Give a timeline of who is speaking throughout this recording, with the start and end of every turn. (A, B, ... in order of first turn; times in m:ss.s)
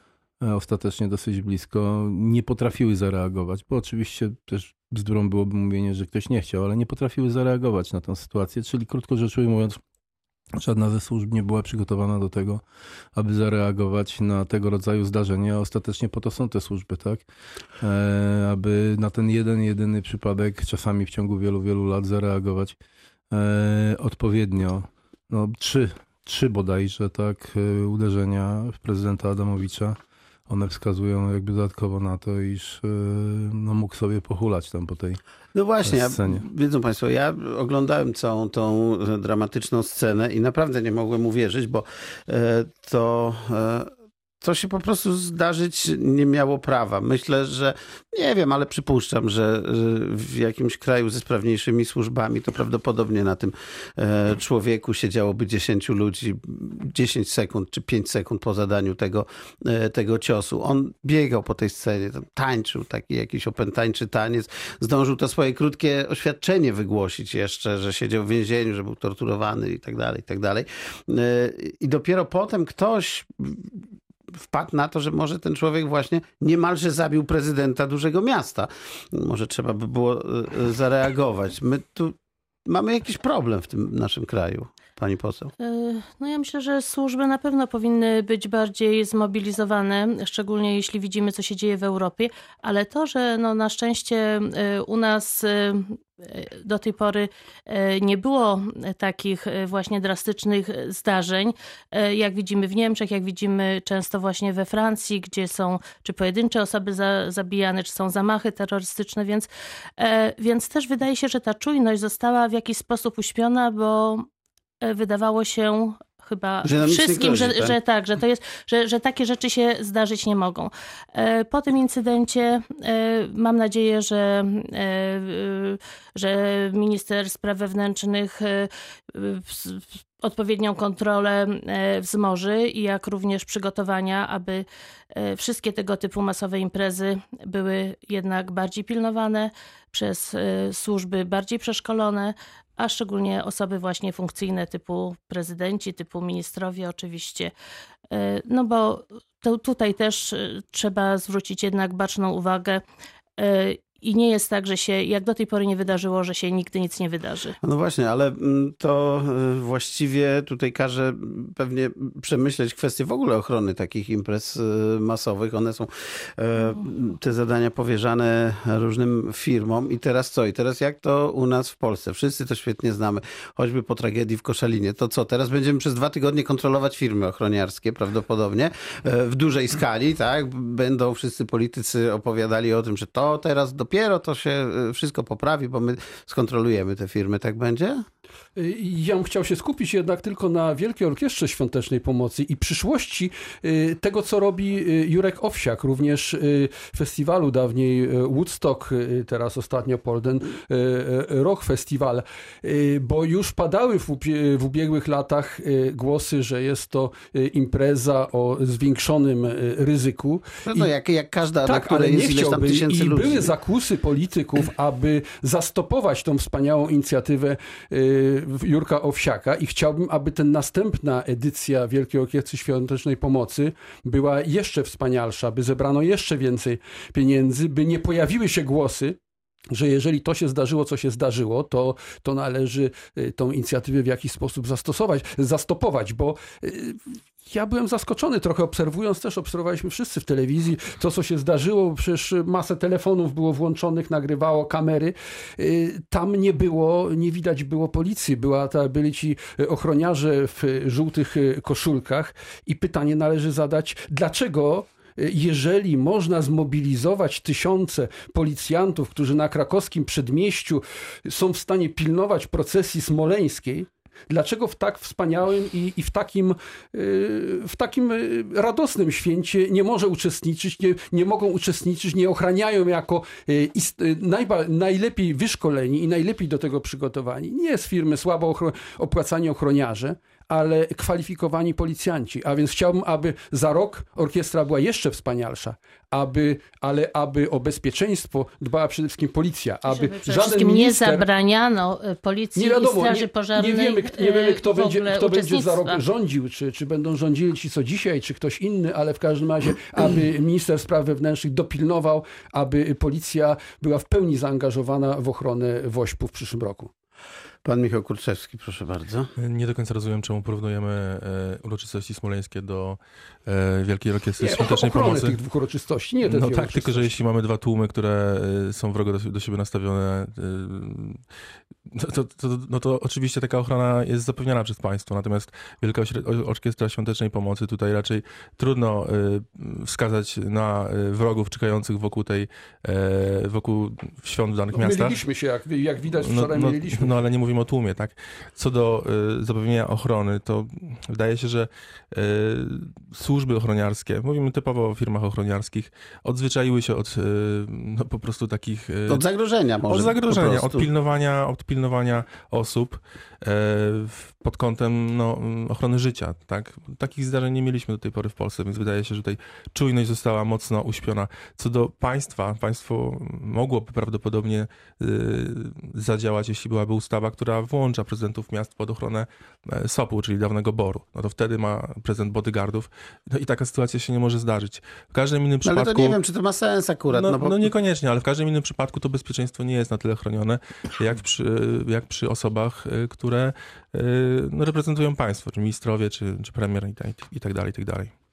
0:00.4-0:09.8 A
0:10.6-0:12.6 A
0:13.1-0:17.2 A
0:17.8-0:22.8 A
0:23.3-0:30.0 A
0:30.5-0:35.2 A
0:35.5-0:43.9 B
0:35.8-0:36.4 A
0:44.4-1:13.7 B
1:14.4-1:25.5 B
1:25.6-1:54.3 C
1:54.8-2:27.5 C
1:56.6-1:57.8 B
2:28.1-2:32.8 C
2:33.4-2:37.6 C
2:37.6-3:08.0 B
3:08.6-3:30.9 D
3:30.7-3:33.5 B
3:31.6-3:49.2 D
3:49.7-4:51.3 D
4:49.8-4:56.0 C
4:52.6-5:06.9 D
5:07.6-5:09.3 B
5:09.4-5:15.4 E
5:14.4-5:17.1 D
5:16.2-5:21.2 E
5:21.9-5:35.2 E
5:34.7-5:37.2 D
5:36.2-5:49.2 E
5:49.1-5:50.9 B
5:49.9-6:16.2 E
6:15.6-6:17.7 B
6:17.1-6:28.1 E